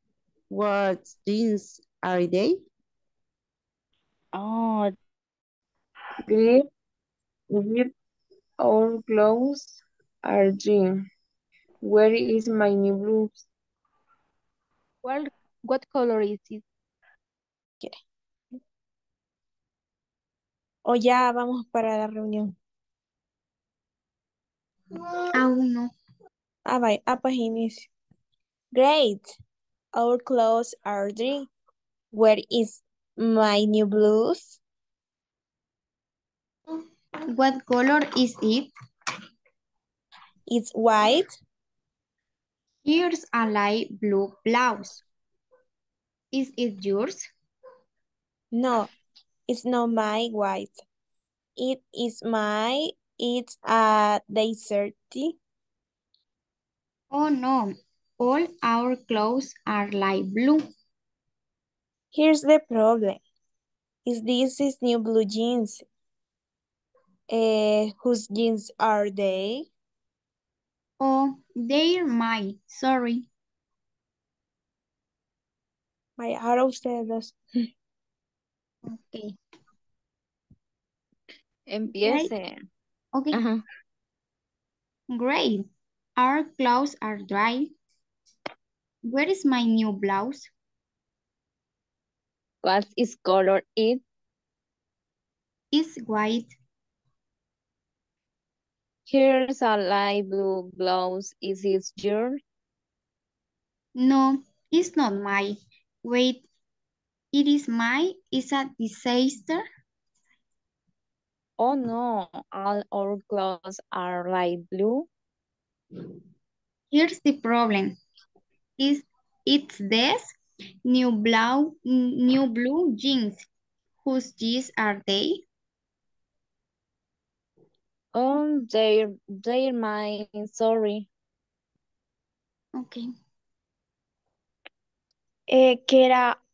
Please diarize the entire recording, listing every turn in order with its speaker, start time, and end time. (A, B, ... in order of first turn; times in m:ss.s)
0:00.5-0:02.6 A
0:04.3-0:04.9 B
0:06.2-0:06.7 C
0:07.5-0:07.9 C
0:08.6-0:11.0 C
0:11.8-0:13.4 C
0:20.8-0:22.5 D
0:25.3-0:25.9 E
0:26.6-0:27.9 D
0:28.7-0:29.3 D
0:29.9-0:31.5 D
0:32.1-0:34.6 D
0:37.3-0:38.7 E
0:40.5-0:41.3 D
0:42.8-0:45.0 E
0:46.3-0:47.3 E
0:48.5-0:48.9 D
0:49.5-0:50.8 D
0:51.6-0:55.4 D
0:57.1-1:00.7 E
1:02.1-1:03.2 D
1:04.0-1:05.8 D
1:07.3-1:09.7 D
1:11.0-1:13.3 E
1:16.2-1:17.6 D
1:18.9-1:19.3 E
1:21.7-1:22.6 B
1:21.9-1:22.3 E
1:23.1-1:23.4 E
1:23.3-1:23.6 B
1:25.1-1:27.7 E
1:29.0-1:30.5 E
1:32.6-1:34.0 B
1:35.7-1:36.5 E
1:39.1-1:42.4 B
1:43.9-1:46.4 E
1:47.3-1:49.6 E
1:51.6-1:55.0 B
1:56.9-1:58.0 E
1:58.8-2:00.3 E
2:00.8-2:03.4 E
2:04.0-2:05.4 E
2:08.1-2:11.0 B
2:12.7-2:13.1 E
2:15.5-2:16.4 D